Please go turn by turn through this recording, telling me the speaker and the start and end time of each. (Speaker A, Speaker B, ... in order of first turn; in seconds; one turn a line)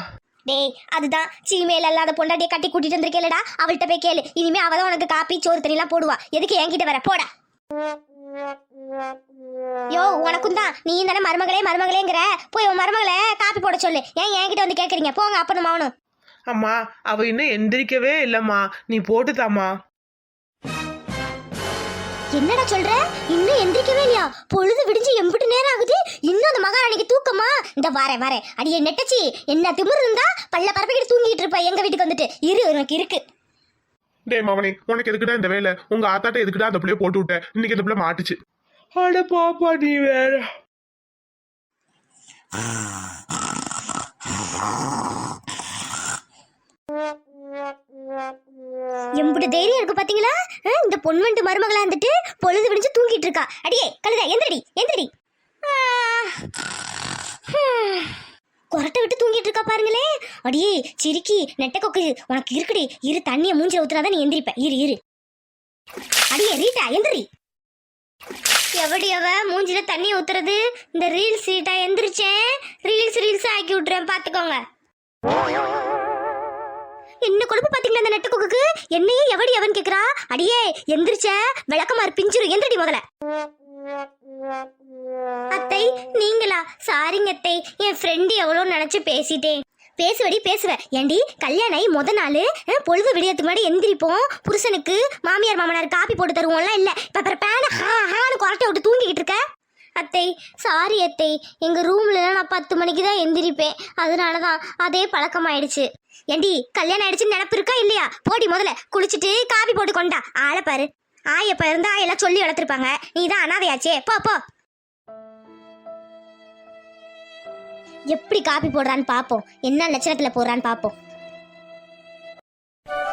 Speaker A: 0.5-7.3
Speaker A: 9.9-15.9
Speaker B: 16.5-19.7
Speaker A: 22.3-33.2
Speaker C: 34.3-38.3
Speaker B: 39.0-40.4
Speaker A: 49.1-55.1
Speaker A: 55.6-56.4
Speaker A: 57.5-58.2
Speaker A: 58.7-65.0
Speaker A: 66.3-67.2
Speaker A: 68.7-74.6
Speaker A: 77.2-83.0
Speaker A: 85.5-99.4
Speaker A: 100.0-114.4
Speaker A: 118.1-120.9